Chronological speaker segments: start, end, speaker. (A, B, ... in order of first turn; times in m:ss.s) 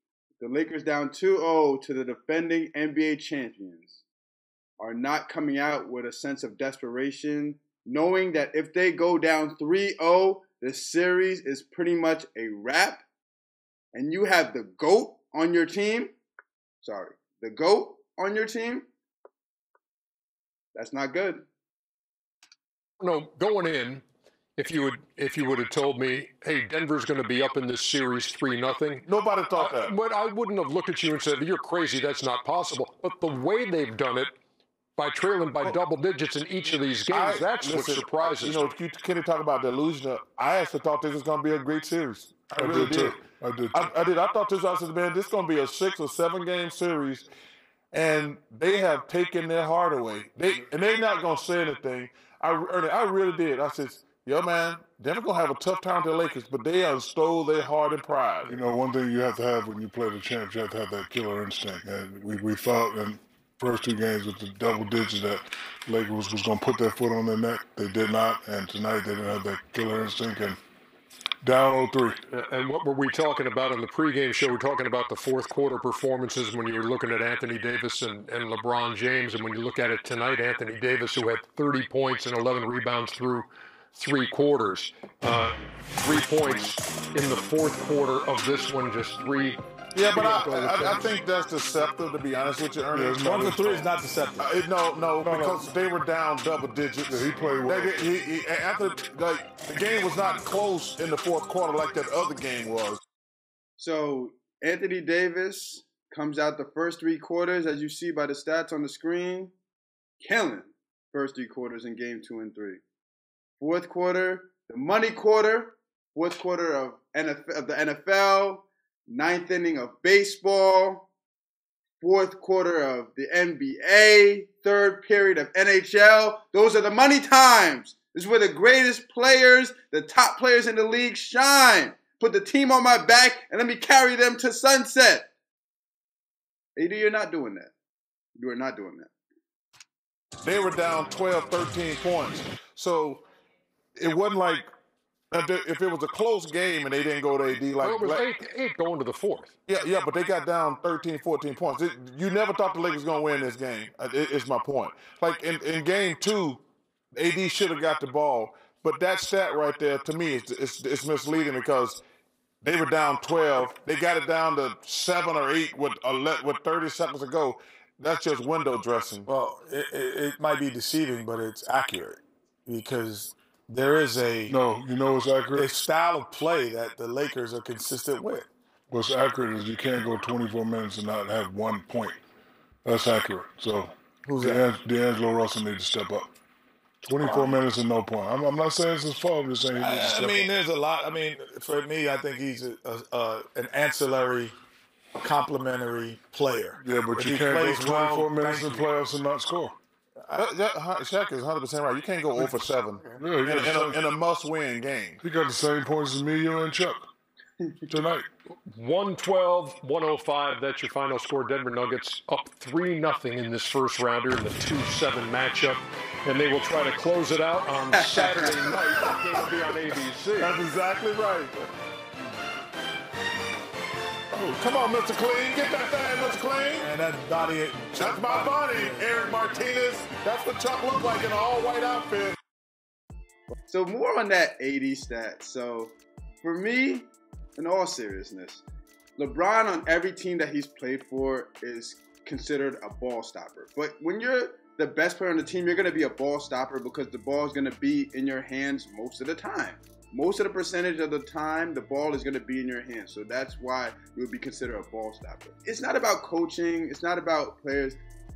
0:00.4-0:04.0 A
0:04.8-0:13.0 A
0:13.9-0:16.1 A
0:16.8-0:18.9 A
0:20.8-0:21.4 A
0:23.0-0:24.0 B
0:24.6-0:34.4 B
0:29.0-0:29.9 C
0:35.0-0:38.7 B
0:37.1-0:43.2 C
0:42.6-0:43.9 D
0:43.7-0:47.3 C
0:47.9-0:58.6 C
0:58.5-1:10.6 D
1:11.4-1:12.2 D
1:12.3-1:31.0 B
1:30.0-1:33.8 C
1:32.9-1:33.6 D
1:33.2-1:34.6 E
1:34.4-1:43.0 C
1:35.2-1:35.6 D
1:37.1-1:38.1 D
1:43.8-1:49.5 A
1:50.2-1:52.8 A
1:53.6-2:01.1 A
2:02.0-2:15.3 A
2:16.8-2:17.7 A
2:18.4-2:19.1 A
2:20.4-2:23.3 C
2:24.0-2:24.7 C
2:25.3-2:28.2 C
2:27.8-2:29.5 B
2:29.7-2:36.6 C
2:37.2-2:42.0 C
2:42.6-2:49.3 C
2:49.3-2:54.6 E
2:54.5-2:55.7 D
2:55.5-2:58.5 E
2:58.9-3:02.2 D
3:02.8-3:06.3 D
3:04.2-3:04.7 E
3:07.0-3:10.5 D
3:07.2-3:07.5 E
3:09.7-3:14.6 E
3:15.2-3:18.9 E
3:16.8-3:19.8 D
3:20.3-3:25.2 C
3:22.4-3:24.0 D
3:25.2-3:27.1 D
3:27.6-3:27.9 A
3:27.9-3:28.3 D
3:28.7-3:40.6 B
3:37.9-3:38.6 A
3:40.4-3:41.6 C
3:44.3-3:46.9 C
3:46.8-3:49.6 E
3:48.0-3:52.4 C
3:53.7-3:58.6 A
3:59.2-4:18.0 A